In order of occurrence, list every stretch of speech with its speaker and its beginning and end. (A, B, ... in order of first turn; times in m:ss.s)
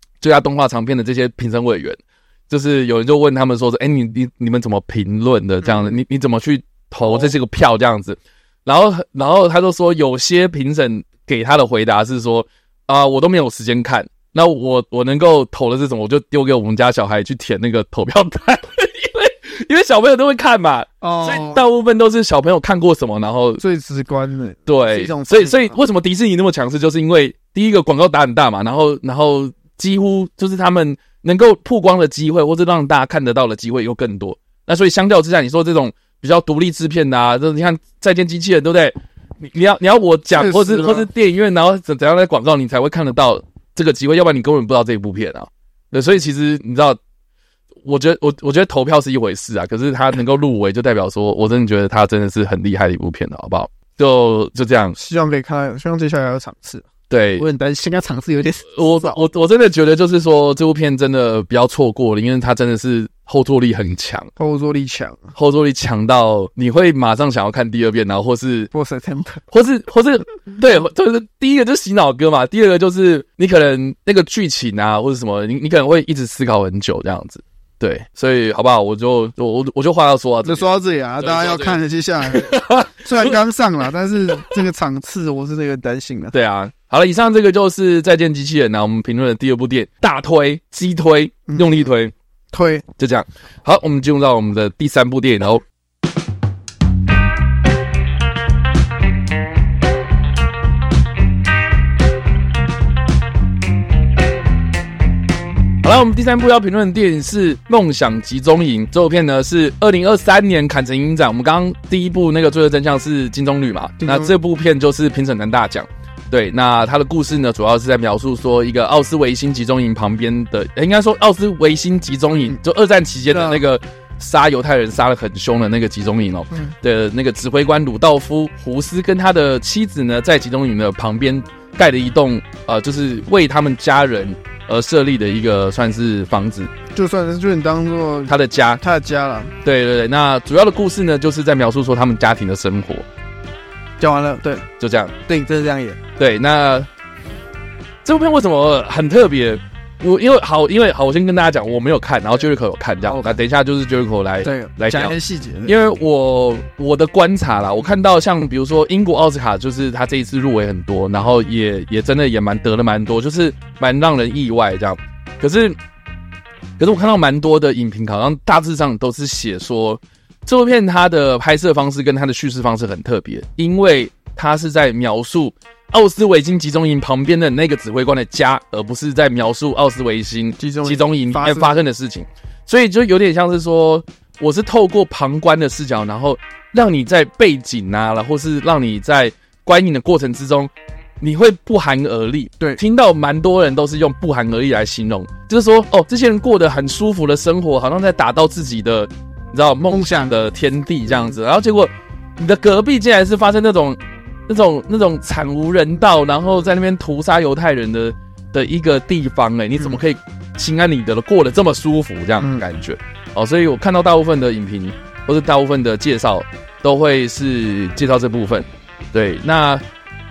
0:00.2-0:23.6 A
0:05.6-0:05.9 B
0:21.0-0:21.6 B
0:23.6-0:25.8 B
0:24.7-0:47.0 A
0:40.3-0:41.1 B
0:47.8-0:55.0 A
0:55.0-0:59.2 B
0:57.1-0:57.4 A
0:58.7-1:04.3 A
1:04.4-1:05.3 B
1:05.3-1:08.7 A
1:08.7-1:09.4 B
1:09.5-1:20.6 A
1:20.4-1:26.3 B
1:21.2-1:23.4 A
1:26.3-1:32.1 A
1:31.5-1:31.9 B
1:32.5-1:32.8 B
1:33.0-1:35.6 A
1:45.8-2:16.7 A
1:54.0-1:54.3 B
2:03.3-2:03.6 B
2:16.9-2:19.5 B
2:18.3-2:18.8 A
2:19.6-2:23.0 A
2:24.0-2:24.6 B
2:24.8-2:25.1 A
2:25.3-2:26.0 B
2:26.2-2:26.9 A
2:28.0-2:45.8 A
2:33.0-2:33.4 B
2:34.4-2:35.7 B
2:46.8-3:39.8 A
3:00.6-3:01.8 B
3:19.9-3:20.4 B
3:32.4-3:32.6 B